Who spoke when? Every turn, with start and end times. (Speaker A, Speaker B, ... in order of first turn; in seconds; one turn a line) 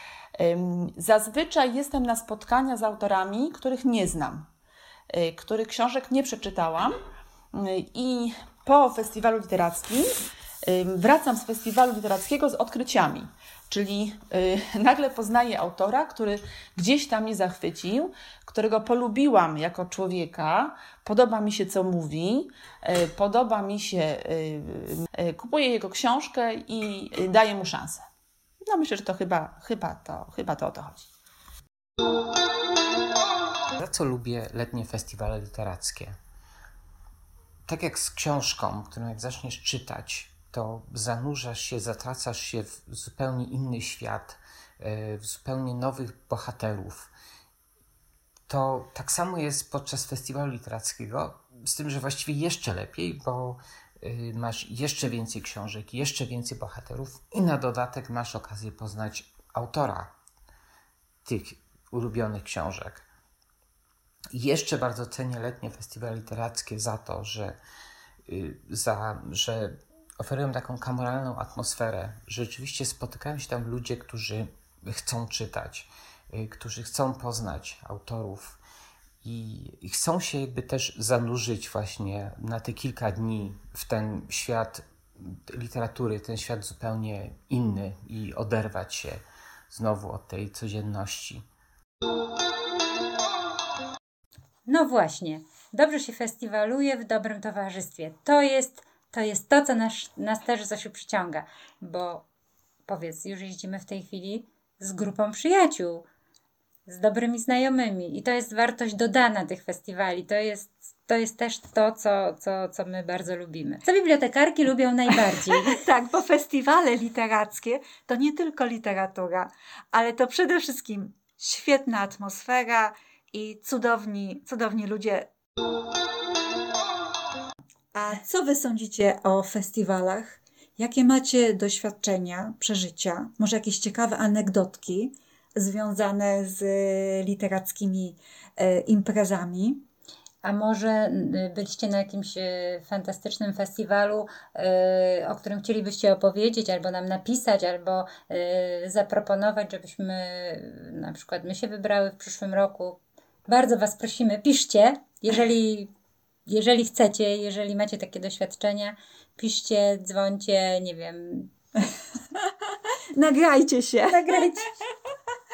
Speaker A: 0.4-4.5
Speaker A: 5.1-7.0
Speaker A: 7.5-10.1
Speaker A: 10.7-28.0
Speaker A: 28.7-31.0
Speaker B: 33.8-36.1
Speaker B: 37.7-47.1
Speaker B: 48.5-60.1
Speaker B: 61.2-63.0
Speaker B: 64.3-67.6
Speaker B: 68.3-78.6
Speaker B: 79.2-91.4
Speaker C: 94.7-102.2
Speaker C: 102.8-106.0
Speaker C: 106.9-115.7
Speaker D: 115.8-125.2
Speaker D: 128.0-139.8
Speaker C: 140.4-155.9
Speaker C: 156.5-161.5
Speaker D: 163.2-164.1
Speaker C: 164.1-164.7